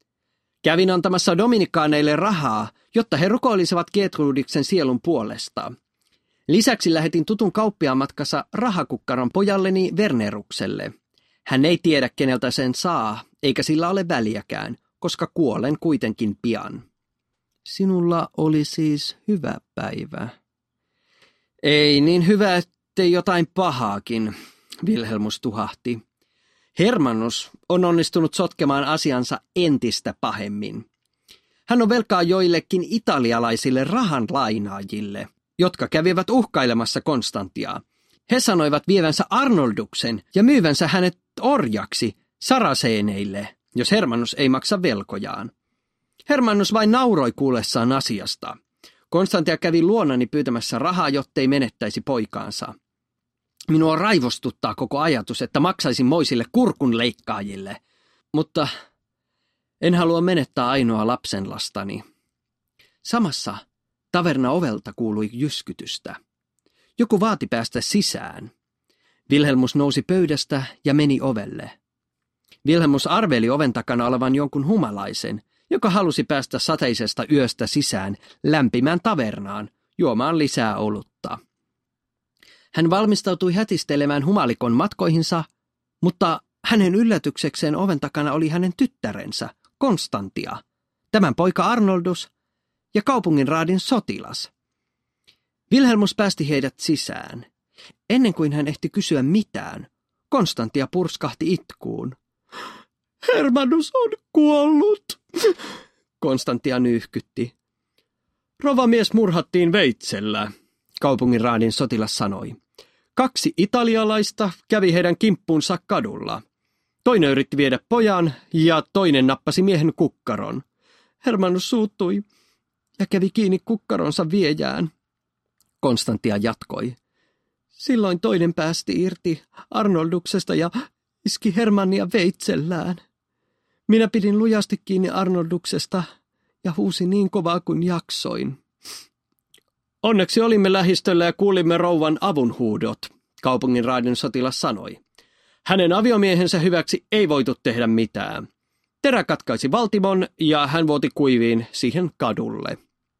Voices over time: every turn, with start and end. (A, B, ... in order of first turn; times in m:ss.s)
0:00.6-0:05.7 A
0:06.5-0:10.9 A
0:11.5-0:16.8 A
0:17.6-0:20.3 A
0:21.6-0:26.0 A
0:26.8-0:30.8 A
0:31.7-0:45.5 A
0:46.3-0:48.6 A
0:49.1-0:52.7 A
0:53.7-0:57.8 A
0:58.3-0:58.7 A
0:59.8-1:02.0 A
1:03.0-1:06.2 A
1:07.0-1:08.5 A
1:09.3-1:11.7 A
1:12.6-1:21.4 A
1:22.7-1:25.5 A
1:26.0-1:30.6 A
1:31.1-1:32.3 A
1:32.9-1:34.5 A
1:35.7-1:37.5 A
1:38.1-1:42.2 A
1:43.2-1:45.6 A
1:46.2-1:47.5 A
1:48.6-1:50.5 A
1:51.0-1:52.6 A
1:53.2-1:56.4 A
1:57.0-2:00.6 A
2:01.2-2:02.2 A
2:03.0-2:04.9 A
2:05.8-2:07.0 A
2:07.8-2:10.7 A
2:11.2-2:13.0 A
2:13.9-2:16.0 A
2:16.6-2:18.6 A
2:20.0-2:25.0 A
2:25.6-2:28.4 A
2:29.0-2:32.8 A